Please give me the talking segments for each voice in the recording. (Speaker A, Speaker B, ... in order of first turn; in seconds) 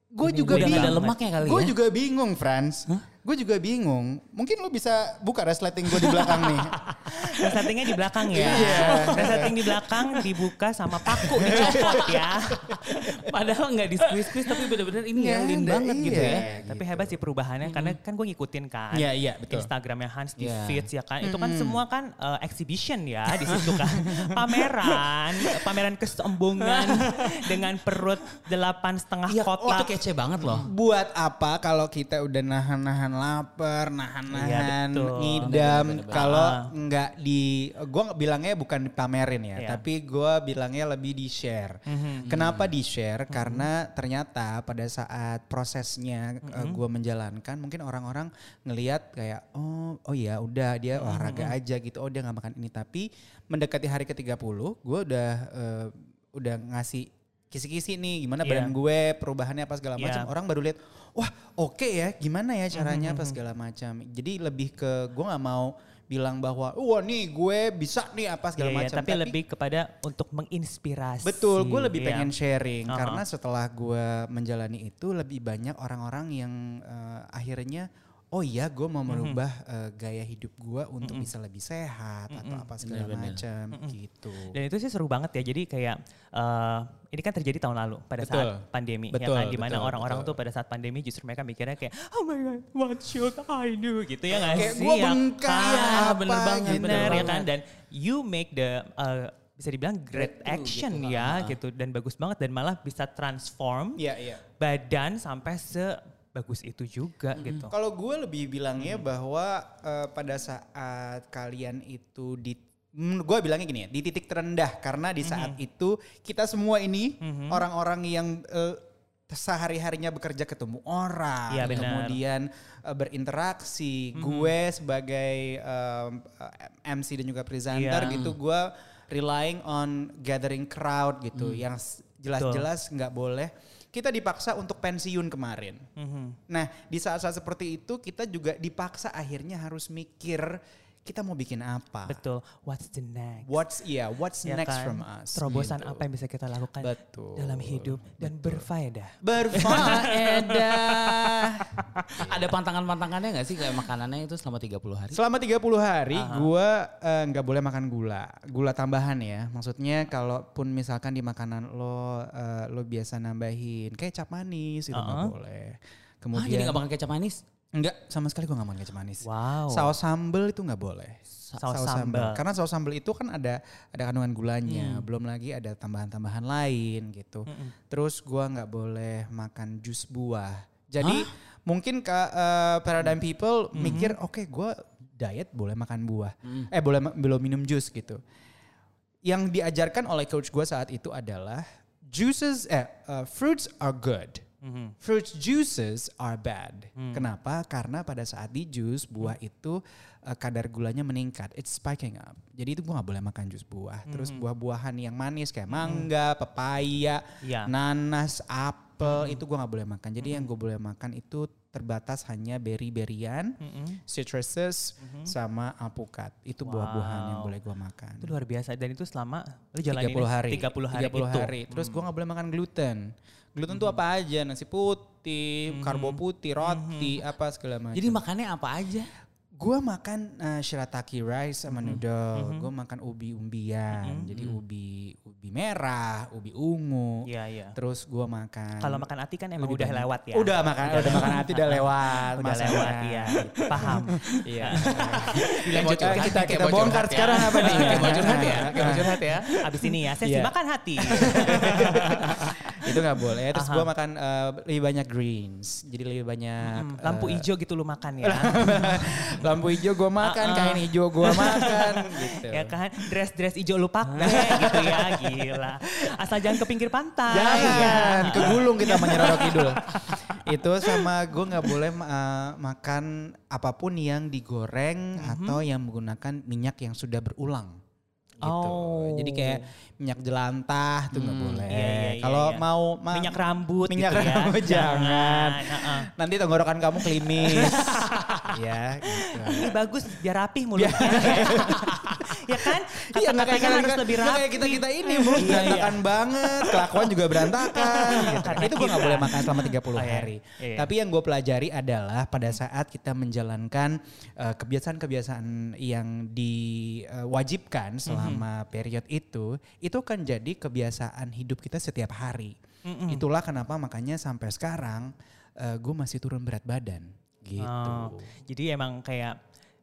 Speaker A: 0.1-6.8, 8.3-9.6, 11.2-13.3, 14.1-14.6, 15.2-17.2, 18.9-19.7, 21.2-21.8, 30.6-69.4, 71.2-84.5, 88.2-90.4, 94.4-97.4, 104.0-104.4, 107.7-135.8, 136.5-142.2, 143.4-146.0, 146.8-148.7, 149.2-152.6, 155.1-166.8, 167.8-188.2, 189.3-194.4, 195.0-218.3, 219.9-228.2, 229.6-239.1, 239.6-249.6, 250.2-250.5, 251.2-257.5, 258.2-262.8, 264.2-266.1, 267.3-277.8, 278.4-289.7, 290.8-318.3
Speaker B: 0.2-1.2, 7.1-12.8, 16.1-30.7, 34.3-35.6, 36.1-36.7, 39.6-39.8, 41.9-42.3, 43.3-43.7, 46.4-46.8, 50.9-51.5, 58.4-58.7, 60.0-60.3, 62.7-63.4, 68.6-72.3, 72.9-73.2, 79.1-79.4, 81.0-81.3, 82.3-82.7, 84.5-96.0, 96.7-104.0, 104.6-107.7, 115.2-115.6, 117.2-117.6, 121.5-122.2, 124.2-124.5, 127.7-128.2, 132.4-132.7, 136.0-136.4, 142.1-143.6, 144.4-150.6, 151.7-152.0, 156.1-156.5, 164.9-165.3, 169.2-169.9, 171.6-172.4, 177.5-177.8, 183.7-184.2, 194.6-194.9, 197.0-197.3, 204.1-204.4, 205.8-206.1, 207.4-207.7, 209.0-209.4, 210.2-210.5, 213.6-214.0, 215.0-215.3, 216.6-217.6, 218.2-222.0, 225.7-227.2, 231.7-232.7, 233.9-234.3, 237.3-237.8, 238.8-249.0, 249.6-252.2, 253.6-253.9, 256.6-259.6, 260.2-270.4, 275.2-275.6, 278.4-279.7, 281.7-286.1, 289.1-296.8, 297.5-300.9, 308.1-308.4, 312.9-313.2, 317.6-319.4
Speaker C: 0.3-1.8, 5.9-7.7, 8.3-10.4, 11.1-16.5, 17.6-18.0, 20.4-20.9, 23.5-24.7, 26.6-27.6, 29.3-30.7, 35.4-36.4, 42.2-42.7, 82.8-83.4, 94.5-97.4, 100.2-101.6, 107.4-107.7, 128.1-128.3, 131.4-131.6, 149.7-150.9, 152.1-155.2, 166.3-167.4, 181.0-181.3, 227.9-229.1, 244.1-249.5, 251.2-252.7, 264.2-264.5, 269.3-270.1, 281.1-281.8, 287.5-288.5, 291.6-291.9